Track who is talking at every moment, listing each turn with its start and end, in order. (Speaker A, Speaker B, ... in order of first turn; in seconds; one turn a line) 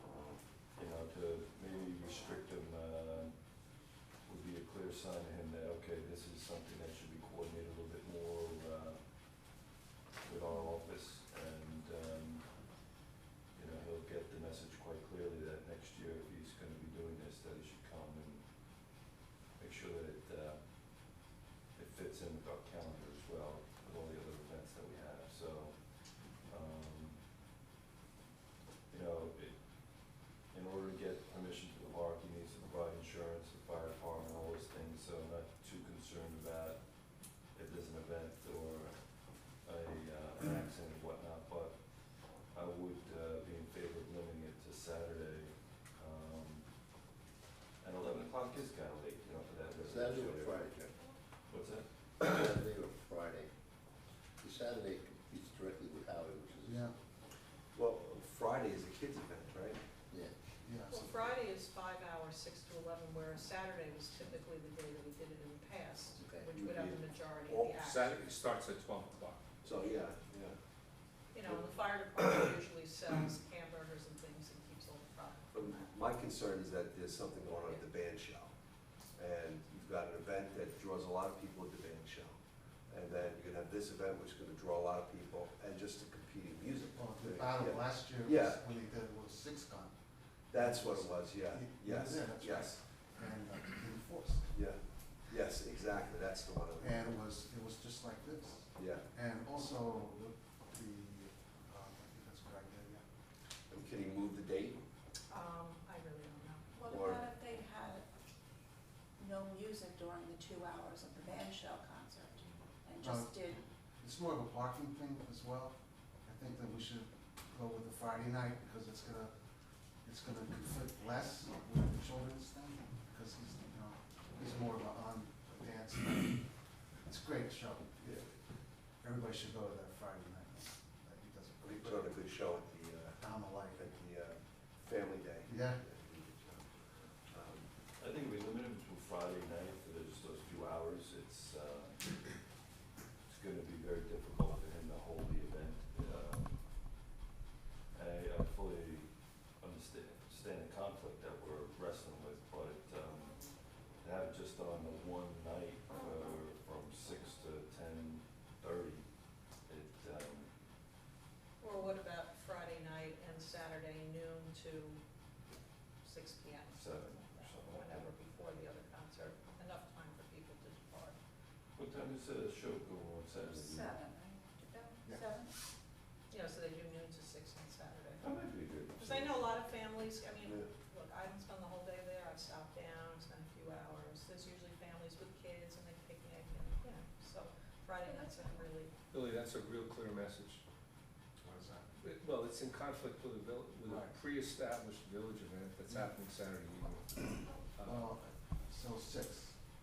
Speaker A: 0.8-3.4
Speaker A: 4.2-9.0
Speaker A: 10.2-12.6
Speaker A: 13.5-18.4
Speaker A: 19.6-20.6
Speaker A: 21.8-25.9
Speaker A: 26.4-27.2
Speaker A: 28.9-36.9
Speaker A: 37.5-46.7
Speaker A: 47.8-50.7
Speaker B: 49.8-51.0
Speaker A: 51.5-51.9
Speaker B: 52.2-53.5
Speaker B: 54.4-56.9
Speaker C: 56.7-56.9
Speaker D: 57.7-59.8
Speaker B: 60.1-60.4
Speaker C: 60.6-61.1
Speaker E: 60.9-68.1
Speaker B: 66.2-66.5
Speaker D: 66.5-67.8
Speaker F: 67.8-69.4
Speaker D: 69.6-70.5
Speaker E: 71.3-75.9
Speaker D: 75.5-78.5
Speaker D: 79.1-88.6
Speaker C: 86.9-90.0
Speaker D: 90.5-92.8
Speaker C: 90.5-94.5
Speaker D: 94.5-97.0
Speaker C: 96.8-103.0
Speaker D: 98.8-99.1
Speaker D: 103.7-104.8
Speaker E: 105.3-106.7
Speaker G: 106.7-108.1
Speaker D: 106.9-107.3
Speaker G: 109.2-113.6
Speaker C: 113.0-113.4
Speaker C: 114.0-119.3
Speaker C: 120.0-128.4
Speaker C: 129.0-132.2
Speaker D: 131.6-136.7
Speaker C: 133.2-133.9
Speaker C: 135.5-135.8
Speaker D: 137.3-137.7
Speaker A: 138.0-142.5
Speaker A: 143.3-147.0
Speaker A: 147.9-159.1
Speaker A: 159.6-160.5
Speaker E: 161.6-165.0
Speaker E: 166.0-171.2
Speaker A: 166.7-168.1
Speaker A: 171.8-174.0
Speaker G: 173.4-175.5
Speaker E: 176.3-178.3
Speaker A: 178.2-179.5
Speaker E: 179.0-188.9
Speaker D: 180.4-180.7
Speaker G: 188.1-188.7
Speaker F: 189.1-190.6
Speaker C: 191.4-191.9
Speaker F: 192.0-198.1
Speaker C: 193.8-194.1
Speaker C: 197.8-199.6